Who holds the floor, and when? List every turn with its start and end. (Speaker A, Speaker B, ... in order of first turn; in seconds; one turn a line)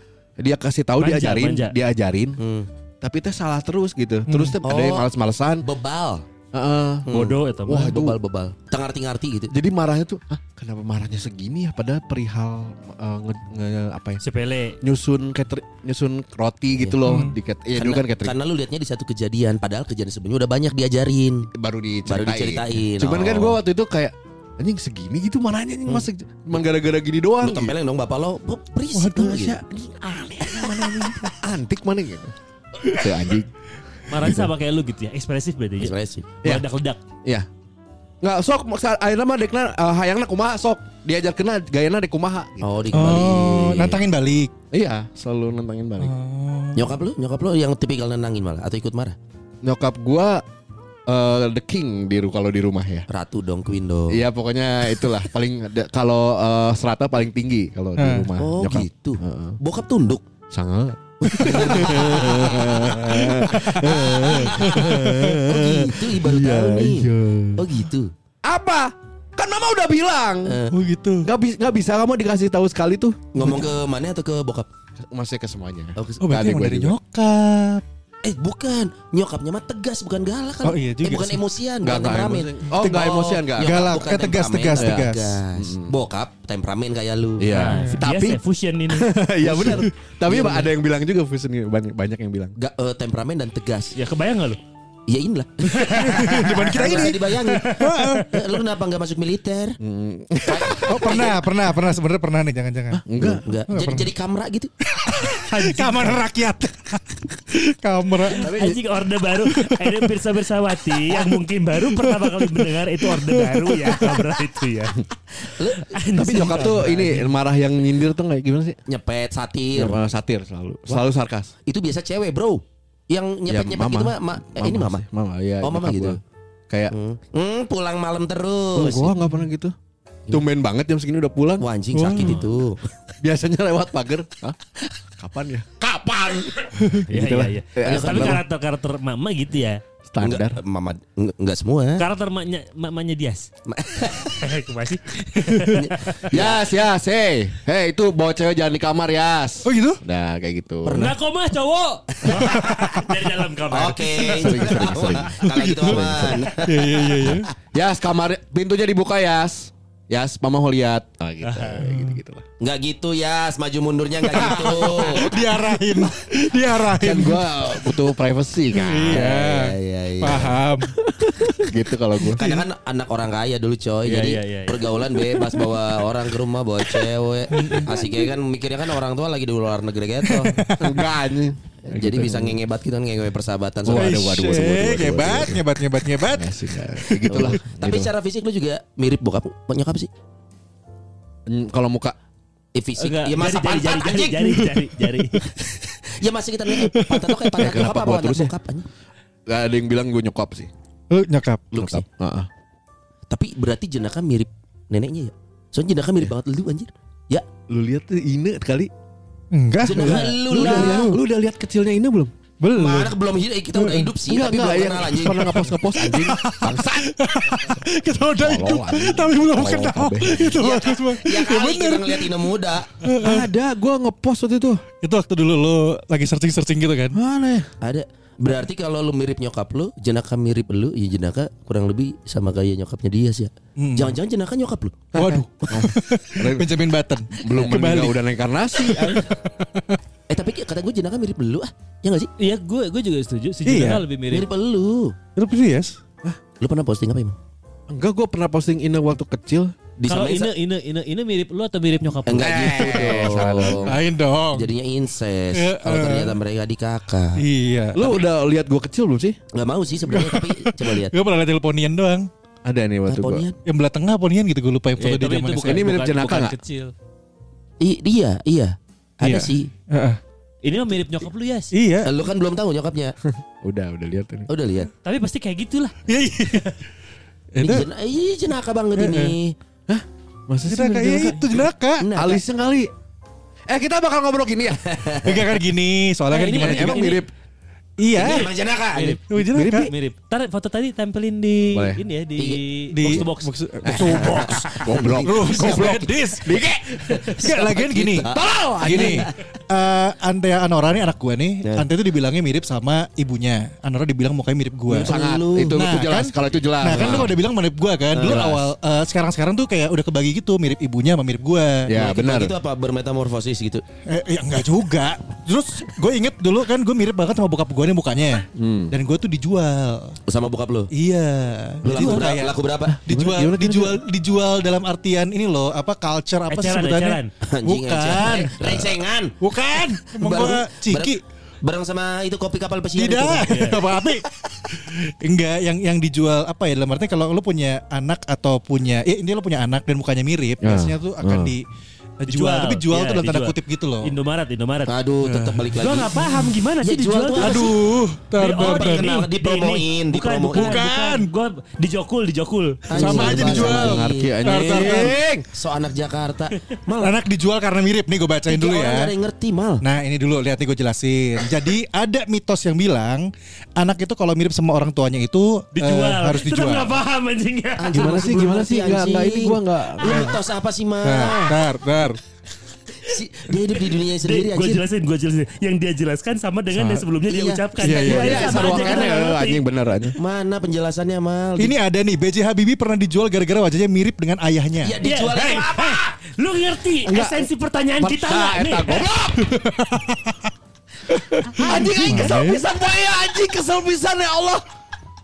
Speaker A: 0.4-2.4
Speaker B: 1.0-1.7
Speaker C: 2.4-2.7
Speaker A: 3.0-5.6
Speaker D: 4.3-4.6
Speaker C: 4.6-5.1
Speaker C: 5.6-6.2
Speaker A: 6.5-8.2
Speaker C: 7.0-9.5
Speaker B: 7.1-8.0
Speaker A: 9.5-14.2
Speaker B: 14.2-14.8
Speaker A: 14.8-18.4
Speaker D: 17.0-17.3
Speaker C: 17.7-21.5
Speaker A: 21.5-27.7
Speaker C: 22.1-23.6
Speaker C: 27.4-29.6
Speaker D: 28.9-29.5
Speaker A: 29.2-33.5
Speaker D: 30.6-31.1
Speaker B: 34.1-37.0
Speaker C: 35.8-36.3
Speaker A: 38.2-42.8
Speaker C: 42.6-44.0
Speaker D: 42.9-44.5
Speaker A: 44.7-46.1
Speaker D: 46.0-46.9
Speaker C: 46.7-49.2
Speaker A: 49.6-50.4
Speaker A: 51.1-53.0
Speaker C: 53.1-54.2
Speaker A: 54.1-59.6
Speaker D: 58.0-58.3
Speaker C: 58.4-60.2
Speaker A: 60.5-67.8
Speaker C: 61.2-68.1
Speaker D: 61.7-65.4
Speaker A: 68.4-70.6
Speaker C: 70.4-70.8
Speaker D: 70.7-71.3
Speaker A: 71.2-73.7
Speaker C: 73.3-74.7
Speaker A: 75.0-76.9
Speaker C: 76.0-76.2
Speaker D: 76.2-77.8
Speaker C: 78.2-87.5
Speaker D: 80.6-81.4
Speaker A: 81.8-84.0
Speaker D: 82.7-85.4
Speaker A: 84.8-86.0
Speaker A: 87.4-92.5
Speaker B: 87.5-89.1
Speaker D: 87.5-88.0
Speaker C: 89.4-90.7
Speaker C: 92.5-94.0
Speaker B: 94.0-94.6
Speaker C: 95.1-99.8
Speaker B: 95.7-98.2
Speaker D: 95.9-98.4
Speaker A: 99.8-101.2
Speaker C: 100.4-101.4
Speaker D: 100.8-103.0
Speaker A: 102.9-103.4
Speaker C: 103.2-104.7
Speaker D: 103.7-104.1
Speaker D: 104.8-108.5
Speaker B: 105.5-106.2
Speaker B: 108.3-117.3
Speaker A: 108.5-108.7
Speaker D: 109.5-110.1
Speaker D: 110.9-114.4
Speaker C: 115.4-117.0
Speaker A: 116.2-118.8
Speaker C: 118.9-120.0
Speaker A: 119.7-121.5
Speaker C: 121.7-125.0
Speaker A: 123.5-126.9
Speaker C: 125.6-126.2
Speaker C: 126.9-129.1
Speaker A: 128.7-129.7
Speaker A: 130.3-131.7
Speaker C: 131.6-132.8
Speaker D: 131.9-132.4
Speaker B: 132.1-132.4
Speaker A: 133.2-134.6
Speaker A: 135.2-138.4
Speaker D: 136.8-137.0
Speaker B: 137.1-139.8
Speaker C: 137.8-138.4
Speaker A: 140.1-140.6
Speaker C: 140.2-142.0
Speaker B: 142.0-143.5
Speaker C: 143.7-144.4
Speaker B: 144.1-146.2
Speaker D: 145.4-145.7
Speaker C: 145.7-146.7
Speaker A: 146.3-151.1
Speaker D: 149.6-150.0
Speaker C: 150.8-151.1
Speaker B: 150.9-154.9
Speaker C: 152.2-152.7
Speaker C: 153.7-157.4
Speaker A: 154.4-156.5
Speaker D: 155.4-157.5
Speaker A: 157.7-162.4
Speaker B: 161.4-161.8
Speaker D: 161.8-162.2
Speaker C: 162.6-165.2
Speaker D: 164.3-167.7
Speaker A: 166.9-169.3
Speaker D: 168.8-170.9
Speaker C: 169.0-170.6
Speaker A: 171.2-172.6
Speaker C: 172.2-180.7
Speaker B: 174.0-174.8
Speaker D: 177.5-177.9
Speaker D: 180.2-181.1
Speaker A: 180.8-182.6
Speaker C: 181.8-185.5
Speaker A: 183.8-185.6
Speaker D: 183.9-187.5
Speaker A: 186.3-188.1
Speaker C: 187.2-190.1
Speaker A: 191.4-192.1
Speaker C: 192.7-194.7
Speaker B: 193.0-195.4
Speaker C: 195.4-198.9
Speaker D: 196.8-197.6
Speaker A: 197.6-198.5
Speaker A: 199.5-200.7
Speaker D: 201.1-201.7
Speaker C: 201.7-202.0
Speaker A: 201.7-202.5
Speaker C: 203.3-207.4
Speaker A: 207.7-208.9
Speaker D: 209.5-211.2
Speaker C: 209.8-211.2
Speaker A: 209.9-212.3
Speaker D: 212.6-213.2
Speaker C: 212.7-215.7
Speaker D: 213.7-214.1
Speaker A: 214.2-217.2
Speaker D: 215.3-222.4
Speaker A: 218.4-220.5
Speaker C: 220.3-222.9
Speaker D: 223.0-223.5
Speaker A: 223.1-224.8
Speaker D: 225.0-227.2
Speaker A: 227.1-227.7
Speaker C: 227.8-235.8
Speaker D: 233.8-234.2
Speaker D: 235.1-238.2
Speaker A: 235.2-236.7
Speaker A: 237.3-239.2
Speaker D: 238.8-240.0
Speaker C: 240.3-242.3
Speaker B: 242.4-244.5
Speaker D: 243.6-244.1
Speaker C: 244.3-245.1
Speaker D: 245.3-246.0
Speaker C: 246.6-247.3
Speaker A: 247.9-249.7
Speaker C: 250.0-250.5
Speaker B: 250.1-253.2
Speaker C: 252.2-253.9
Speaker A: 252.4-254.0
Speaker D: 253.8-254.7
Speaker C: 254.5-257.4
Speaker D: 255.5-256.4
Speaker D: 257.4-258.2
Speaker A: 257.9-259.4
Speaker C: 259.5-261.2
Speaker D: 260.1-262.3
Speaker A: 262.6-263.5
Speaker C: 263.1-263.6
Speaker D: 263.6-265.8
Speaker B: 265.0-266.9
Speaker A: 265.6-266.6
Speaker C: 267.8-269.7
Speaker D: 269.2-270.2
Speaker B: 270.6-271.7
Speaker D: 271.7-272.1
Speaker C: 272.0-273.1
Speaker A: 273.2-274.5
Speaker C: 274.5-274.9
Speaker B: 275.0-275.9
Speaker D: 276.1-276.7
Speaker D: 277.5-277.9
Speaker C: 277.6-279.6
Speaker D: 278.9-279.4
Speaker A: 279.9-282.9
Speaker D: 280.6-282.1
Speaker C: 282.0-282.4
Speaker A: 283.7-285.4
Speaker C: 284.8-285.4
Speaker D: 285.2-287.2
Speaker B: 286.3-287.2
Speaker A: 286.5-287.3
Speaker D: 288.0-288.5
Speaker C: 288.1-289.2
Speaker B: 288.9-293.5
Speaker D: 289.3-289.9
Speaker A: 289.5-289.9
Speaker A: 291.7-292.0
Speaker C: 292.4-293.2
Speaker D: 292.9-298.3
Speaker A: 293.8-297.5
Speaker C: 293.9-296.0
Speaker C: 297.0-299.3
Speaker A: 298.2-299.3
Speaker D: 298.8-305.2
Speaker C: 304.9-305.8
Speaker A: 304.9-307.3
Speaker D: 305.7-311.9
Speaker C: 306.9-307.3
Speaker C: 308.1-308.5
Speaker A: 308.2-308.6
Speaker A: 311.9-312.5
Speaker C: 311.9-313.8
Speaker D: 314.1-320.2
Speaker A: 318.6-318.9
Speaker C: 320.3-320.9
Speaker D: 320.9-331.2
Speaker C: 321.8-323.0
Speaker A: 323.1-324.0
Speaker B: 326.5-327.3
Speaker C: 327.4-329.3
Speaker C: 330.1-333.8
Speaker D: 332.9-341.6
Speaker B: 333.5-333.8
Speaker A: 340.6-341.5
Speaker D: 342.2-344.1
Speaker B: 342.3-344.9
Speaker C: 344.9-346.1
Speaker D: 345.2-345.7
Speaker B: 345.8-347.7
Speaker C: 346.8-347.7
Speaker D: 347.4-349.2
Speaker B: 348.4-353.6
Speaker C: 348.5-350.8
Speaker D: 350.5-351.3
Speaker C: 352.9-357.1
Speaker D: 352.9-355.2
Speaker A: 353.1-355.4
Speaker D: 357.0-359.1
Speaker C: 358.5-359.8
Speaker D: 359.8-367.0
Speaker B: 365.8-368.1
Speaker C: 367.8-371.6
Speaker A: 367.9-370.3
Speaker D: 370.0-370.4
Speaker D: 371.0-372.2
Speaker C: 373.0-374.8
Speaker B: 374.1-379.6
Speaker D: 376.7-377.1
Speaker C: 377.3-379.2
Speaker D: 377.8-378.5
Speaker A: 377.9-380.1
Speaker C: 380.2-381.7
Speaker D: 381.6-385.0
Speaker C: 384.8-386.1
Speaker B: 385.0-389.1
Speaker A: 387.1-387.4
Speaker A: 388.0-389.5
Speaker D: 389.4-390.5
Speaker D: 391.2-392.6
Speaker C: 391.5-392.5
Speaker A: 391.5-394.6